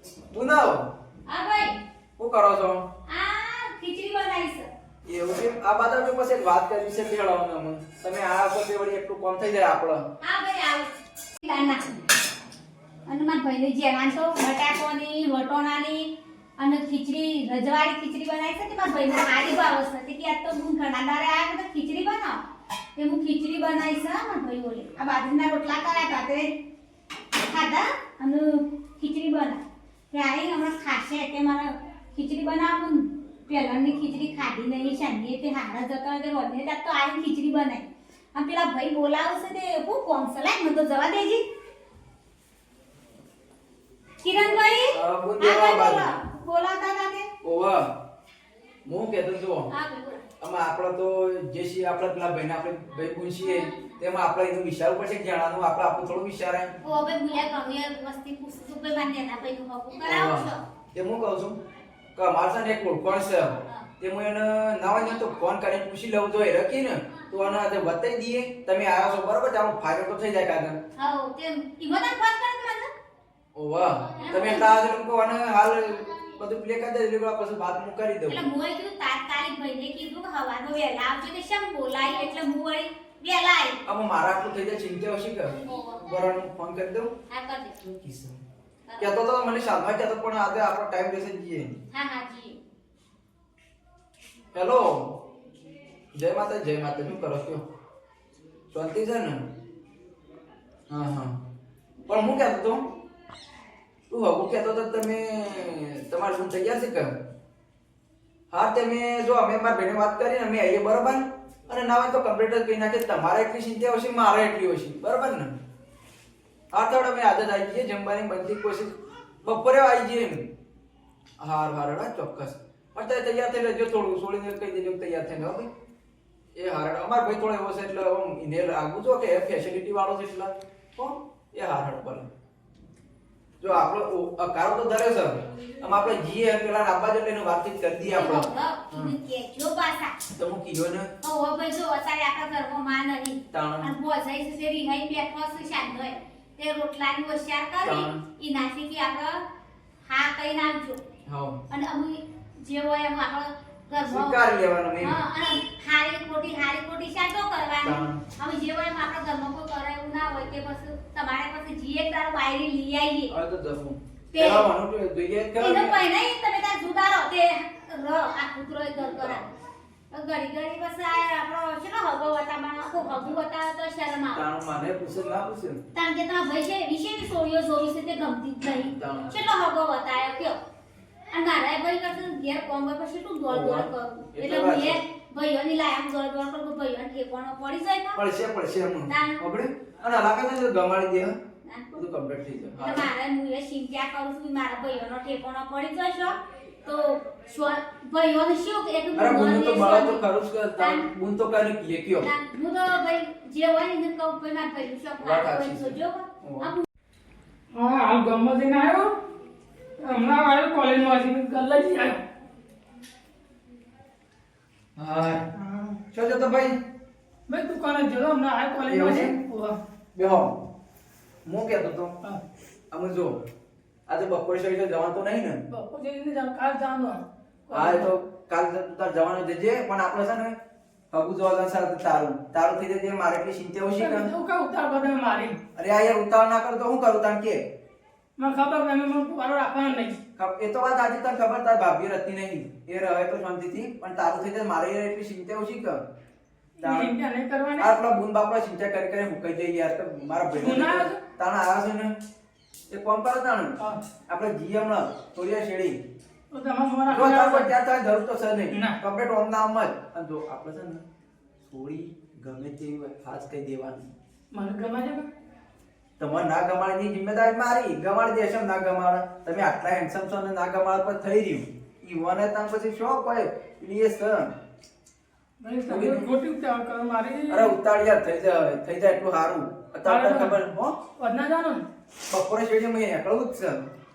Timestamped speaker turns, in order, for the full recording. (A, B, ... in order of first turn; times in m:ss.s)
0:00.3-0:00.9 A
0:01.2-0:01.8 B
0:02.2-0:02.8 A
0:03.1-0:04.7 B
0:05.1-0:10.0 A
0:10.2-0:10.9 B
0:11.4-0:11.8 B
0:13.0-0:22.4 B
0:23.0-0:26.5 B
0:27.3-0:41.4 B
0:44.2-0:47.3 B
0:44.9-0:46.2 A
0:47.4-0:47.9 A
0:48.8-0:49.7 A
0:49.7-0:50.2 B
0:50.4-0:56.7 A
0:56.8-1:00.6 B
1:00.0-1:01.6 A
1:02.1-1:10.8 A
1:11.0-1:12.9 B
1:13.5-1:18.5 A
1:14.2-1:14.8 B
1:18.3-1:23.8 B
1:23.8-1:27.1 A
1:25.6-1:26.0 B
1:27.3-1:27.9 B
1:28.0-1:28.4 A
1:29.0-1:31.8 A
1:31.9-1:32.6 B
1:34.5-1:35.3 A
1:36.1-1:37.6 A
1:38.7-1:39.5 A
1:40.9-1:41.4 A
1:42.1-1:42.9 A
1:44.1-1:47.2 A
1:48.5-1:55.6 A
1:56.7-2:00.5 A
2:01.4-2:05.7 A
2:06.5-2:12.3 A
2:13.6-2:19.2 A
2:18.1-2:20.1 B
2:20.4-2:21.1 A
2:21.2-2:29.4 B
2:23.5-2:23.9 A
2:27.8-2:28.2 A
2:30.0-2:31.0 B
2:31.2-2:31.6 A
2:31.7-2:43.3 B
2:34.0-2:35.2 A
2:37.8-2:38.2 A
2:43.3-2:46.0 A
2:44.3-2:44.7 B
2:45.6-2:49.4 B
2:49.0-2:49.4 A
2:50.1-2:54.4 B
2:54.3-2:55.8 A
2:55.9-3:00.6 B
2:59.0-2:59.4 A
3:01.3-3:08.2 B
3:03.5-3:05.0 A
3:08.1-3:11.4 A
3:09.0-3:09.4 B
3:11.6-3:12.0 B
3:11.9-3:13.1 A
3:12.7-3:20.2 B
3:19.1-3:22.3 A
3:20.8-3:21.1 B
3:22.2-3:26.8 B
3:25.2-3:26.7 A
3:27.7-3:29.1 C
3:30.0-3:32.2 C
3:35.0-3:35.5 A
3:35.6-3:35.9 C
3:36.1-3:36.8 A
3:37.5-3:39.8 C
3:38.9-3:39.4 A
3:40.1-3:40.6 A
3:41.4-3:42.1 A
3:42.9-3:43.4 A
3:44.1-3:45.6 A
3:45.7-3:48.1 C
3:47.7-3:50.6 A
3:51.1-3:54.3 A
3:53.9-3:55.6 C
3:55.7-3:57.6 A
3:58.4-4:00.2 C
4:00.4-4:06.0 A
4:06.8-4:08.0 C
4:06.8-4:07.1 A
4:07.8-4:12.1 A
4:10.5-4:11.2 C
4:12.9-4:16.0 A
4:16.5-4:17.7 C
4:17.1-4:21.0 A
4:18.7-4:19.0 C
4:21.6-4:24.1 A
4:24.5-4:25.2 C
4:26.2-4:34.5 A
4:35.6-4:37.7 C
4:35.9-4:36.3 A
4:37.5-4:41.0 A
4:40.0-4:40.6 C
4:41.2-4:41.8 C
4:42.3-4:43.9 A